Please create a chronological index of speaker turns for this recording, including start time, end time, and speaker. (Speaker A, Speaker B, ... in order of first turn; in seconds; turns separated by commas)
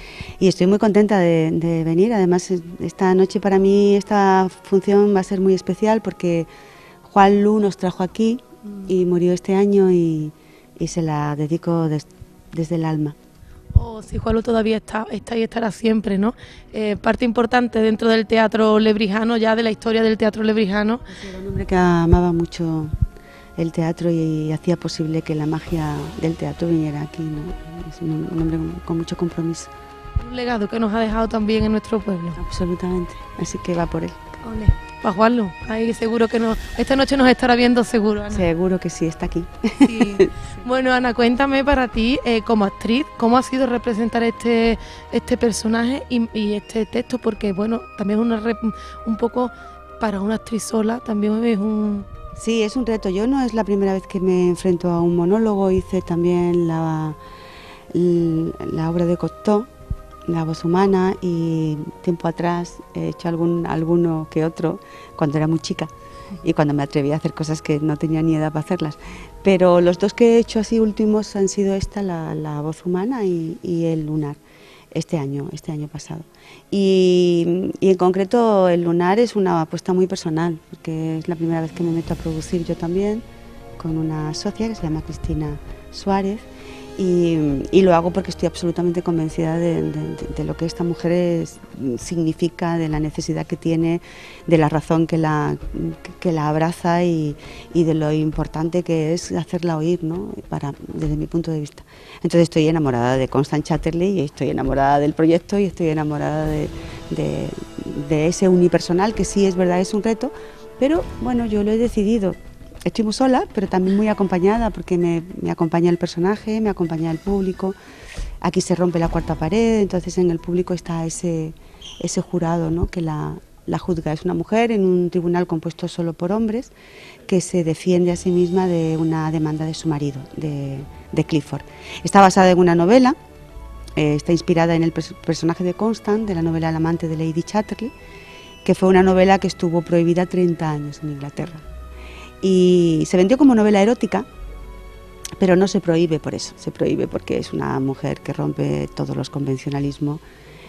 Speaker A: 0.4-6.5, Speaker A: 7.0-13.2, Speaker B: 13.7-21.1, Speaker A: 21.1-22.9, Speaker A: 23.6-29.7, Speaker B: 30.2-32.4, Speaker A: 32.4-34.2, Speaker B: 34.4-38.5, Speaker A: 38.3-40.3, Speaker B: 39.8-52.1, Speaker A: 52.4-57.2, Speaker A: 57.9-59.7, Speaker A: 60.2-74.4, Speaker A: 74.9-83.2, Speaker A: 83.8-117.8, Speaker A: 118.4-126.7, Speaker A: 127.2-133.2, Speaker A: 134.0-137.9, Speaker A: 138.7-141.7, Speaker A: 142.4-144.2, Speaker A: 145.4-150.2